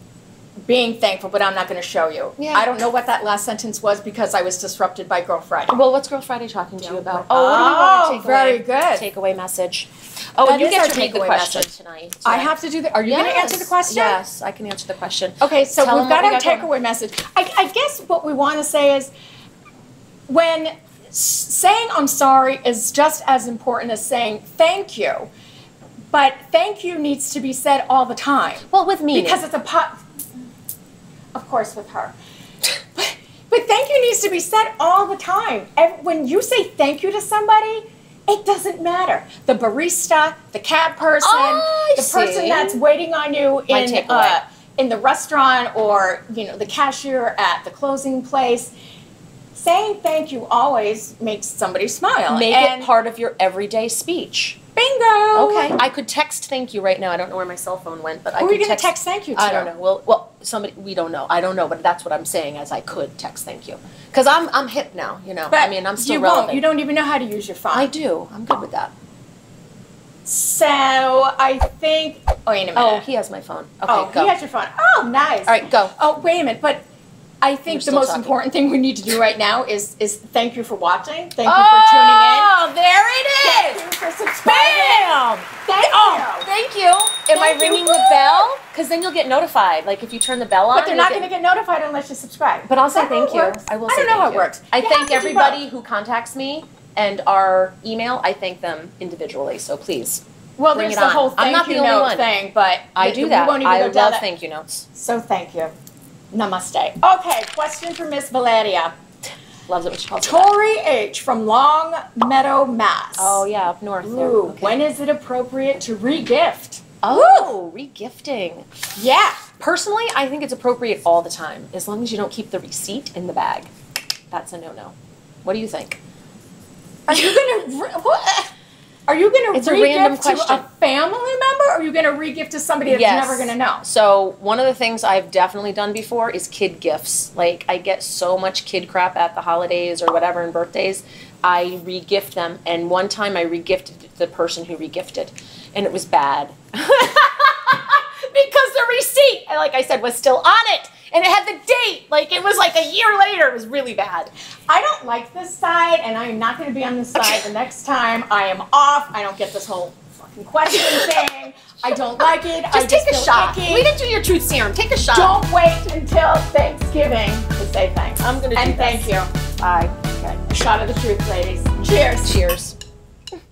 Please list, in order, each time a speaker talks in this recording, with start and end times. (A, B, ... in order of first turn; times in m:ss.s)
0:00.7-0:05.8 A
0:02.4-0:02.8 B
0:05.7-0:12.5 B
0:06.8-0:09.0 A
0:10.4-0:11.7 A
0:12.2-0:14.2 A
0:13.0-0:16.7 B
0:15.4-0:19.1 A
0:20.3-0:25.3 A
0:26.1-0:30.0 A
0:28.7-0:29.4 B
0:31.3-0:32.1 A
0:32.9-0:48.7 A
0:41.2-0:42.8 B
0:43.7-0:44.4 B
0:49.5-0:52.9 A
0:52.3-0:54.6 B
0:54.8-0:55.7 A
0:55.3-1:06.6 B
0:58.4-0:59.7 A
1:05.5-1:07.9 A
1:07.7-1:08.9 B
1:10.2-1:13.0 A
1:12.7-1:14.3 B
1:13.9-1:16.8 A
1:15.5-1:15.9 B
1:17.4-1:22.5 A
1:17.7-1:18.3 B
1:21.4-1:23.8 B
1:23.4-1:26.5 A
1:24.4-1:31.3 B
1:27.3-1:28.5 A
1:30.7-1:35.6 A
1:32.6-1:40.2 B
1:40.6-1:44.2 A
1:40.7-1:42.3 B
1:43.0-1:44.8 B
1:44.9-1:45.7 A
1:46.3-1:48.9 A
1:49.7-1:50.5 B
1:50.2-1:53.4 A
1:53.2-1:54.8 B
1:54.0-1:57.5 A
1:57.0-1:58.7 B
1:59.0-1:59.4 A
1:59.6-2:03.7 B
2:04.3-2:06.0 B
2:07.1-2:08.5 A
2:07.1-2:07.4 B
2:09.1-2:13.8 A
2:09.5-2:10.6 B
2:12.9-2:34.3 B
2:34.7-2:43.9 A
2:37.2-2:37.5 B
2:40.7-2:41.2 B
2:41.8-2:45.3 B
2:45.1-2:49.3 A
2:48.2-2:50.4 B
2:50.5-2:52.4 A
2:52.2-2:52.8 B